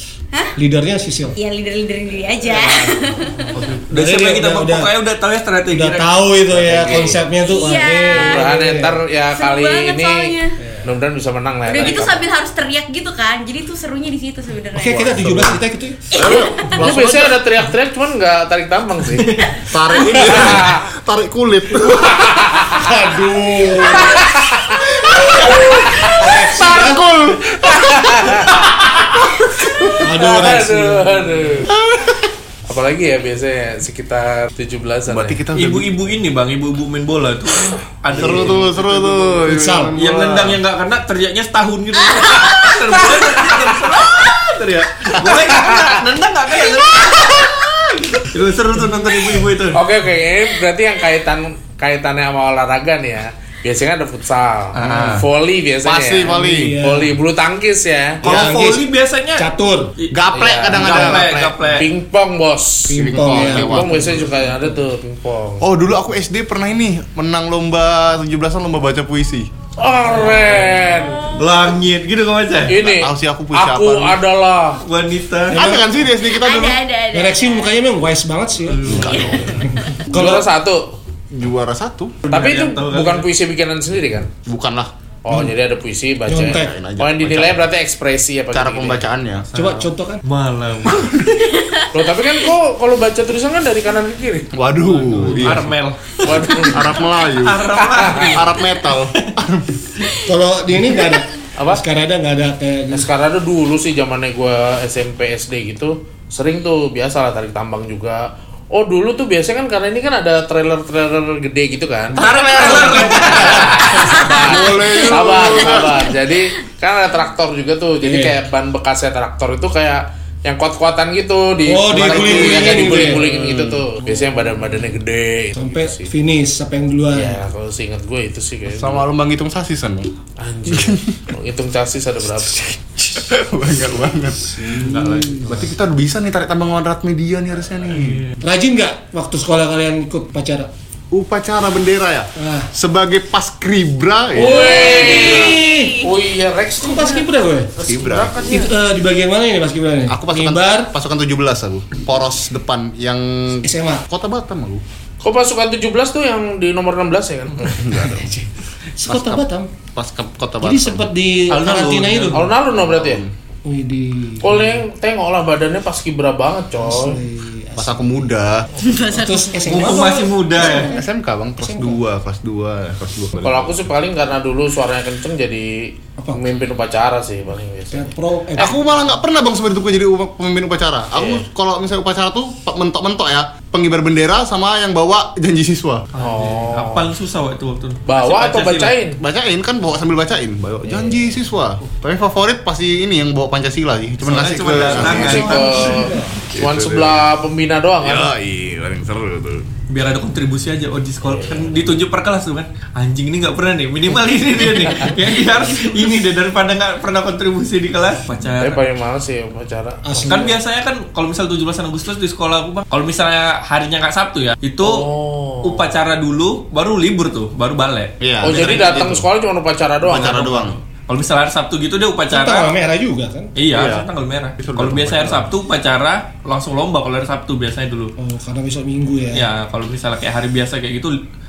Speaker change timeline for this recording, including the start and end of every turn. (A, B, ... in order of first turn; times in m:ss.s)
0:00.6-0:01.4 A
0:01.4-0:03.7 B
0:02.4-0:06.9 C
0:03.9-0:04.9 A
0:05.7-0:09.0 A
0:06.6-0:07.2 D
0:07.4-0:08.5 B
0:08.1-0:12.3 D
0:09.4-0:10.6 B
0:11.6-0:15.6 B
0:14.7-0:16.0 A
0:16.1-0:16.8 B
0:16.1-0:17.4 E
0:16.6-0:19.4 D
0:19.1-0:20.7 C
0:19.7-0:22.5 E
0:20.1-0:20.9 D
0:21.8-0:23.0 D
0:22.8-0:24.2 A
0:23.8-0:24.3 B
0:23.8-0:24.9 D
0:24.9-0:30.1 E
0:25.4-0:26.6 D
0:26.2-0:27.0 A
0:27.6-0:28.9 D
0:29.9-0:31.7 D
0:30.0-0:31.7 A
0:31.7-0:32.3 E
0:32.7-0:35.4 D
0:35.1-0:36.0 E
0:35.5-0:49.8 C
0:38.1-0:40.0 E
0:39.4-0:40.6 A
0:42.2-0:42.6 B
0:45.3-0:46.0 D
0:47.3-0:47.6 B
0:49.7-0:58.2 D
0:54.8-0:55.2 C
0:54.8-0:55.3 E
0:55.8-0:56.8 E
0:56.2-0:57.1 A
0:58.2-0:59.9 A
0:58.2-1:01.9 C
1:00.1-1:01.6 E
1:00.3-1:05.6 D
1:02.9-1:04.8 A
1:02.9-1:04.1 E
1:05.6-1:09.5 E
1:09.8-1:11.3 D
1:10.9-1:11.7 B
1:11.3-1:12.9 C
1:12.7-1:14.8 D
1:12.8-1:14.2 E
1:14.8-1:15.6 C
1:15.5-1:15.9 A
1:15.5-1:16.8 E
1:16.2-1:17.8 B
1:17.1-1:20.5 A
1:18.7-1:19.3 C
1:18.9-1:19.7 E
1:18.9-1:20.0 B
1:20.1-1:21.0 D
1:21.3-1:22.2 E
1:22.3-1:23.3 C
1:22.3-1:24.3 D
1:24.4-1:24.9 E
1:25.2-1:29.0 D
1:26.3-1:26.7 A
1:26.4-1:27.7 E
1:28.5-1:29.5 E
1:29.5-1:31.6 C
1:29.6-1:30.2 A
1:31.5-1:32.0 B
1:31.9-1:34.5 D
1:34.5-1:35.7 E
1:34.9-1:36.7 C
1:36.2-1:37.0 D
1:36.6-1:39.9 E
1:37.4-1:39.3 C
1:37.7-1:38.4 D
1:40.2-1:43.1 A
1:41.6-1:41.8 D
1:42.9-2:06.1 D
1:52.1-1:54.2 A
1:52.2-1:54.0 C
1:54.1-1:55.9 B
1:54.2-1:56.1 E
1:58.0-1:58.4 A
2:01.7-2:03.2 A
2:02.0-2:03.8 E
2:04.0-2:04.9 A
2:05.6-2:07.4 A
2:07.1-2:09.1 D
2:08.7-2:10.1 E
2:10.4-2:12.7 D
2:10.7-2:11.2 E
2:12.6-2:18.2 E
2:14.5-2:15.6 A
2:14.7-2:15.7 C
2:17.9-2:18.4 C
2:18.4-2:20.7 A
2:21.1-2:25.3 E
2:22.4-2:22.7 A
2:24.3-2:28.7 D
2:24.4-2:26.1 B
2:25.0-2:26.0 A
2:26.8-2:27.7 A
2:27.9-2:28.7 E
2:28.5-2:30.9 A
2:30.1-2:34.8 E
2:33.6-2:34.0 A
2:35.2-2:37.9 D
2:37.7-2:38.4 E
2:39.0-2:39.7 A
2:39.1-2:41.1 E
2:40.6-2:42.5 A
2:41.5-2:42.5 C
2:42.3-2:43.2 D
2:42.7-2:43.3 E
2:43.7-2:44.8 A
2:44.4-2:47.2 D
2:46.8-2:48.3 A
2:47.8-2:48.7 E
2:48.8-2:50.1 B
2:49.1-2:50.9 A
2:49.7-2:51.0 C
2:50.6-2:53.8 E
2:51.6-2:52.0 A
2:53.4-2:58.7 D
2:57.9-2:58.8 A
2:58.6-3:06.1 E
3:01.1-3:01.4 D
3:06.1-3:08.9 C
3:06.2-3:07.1 D
3:08.1-3:09.2 D
3:09.2-3:15.6 E
3:14.2-3:16.1 C
3:14.8-3:16.4 A
3:14.9-3:18.3 D
3:16.5-3:17.2 E
3:18.0-3:19.7 E
3:19.9-3:28.8 C
3:21.2-3:21.9 D
3:28.6-3:30.6 D
3:30.0-3:30.6 A
3:30.3-3:35.1 C
3:34.8-3:35.9 D
3:35.6-3:38.8 C
3:38.2-3:39.2 E
3:38.4-3:40.7 D
3:40.0-3:40.8 E
3:41.0-3:42.7 C
3:42.3-3:43.5 A
3:43.6-3:48.1 C
3:43.7-3:45.5 E
3:48.2-3:49.5 A
3:49.3-3:51.1 C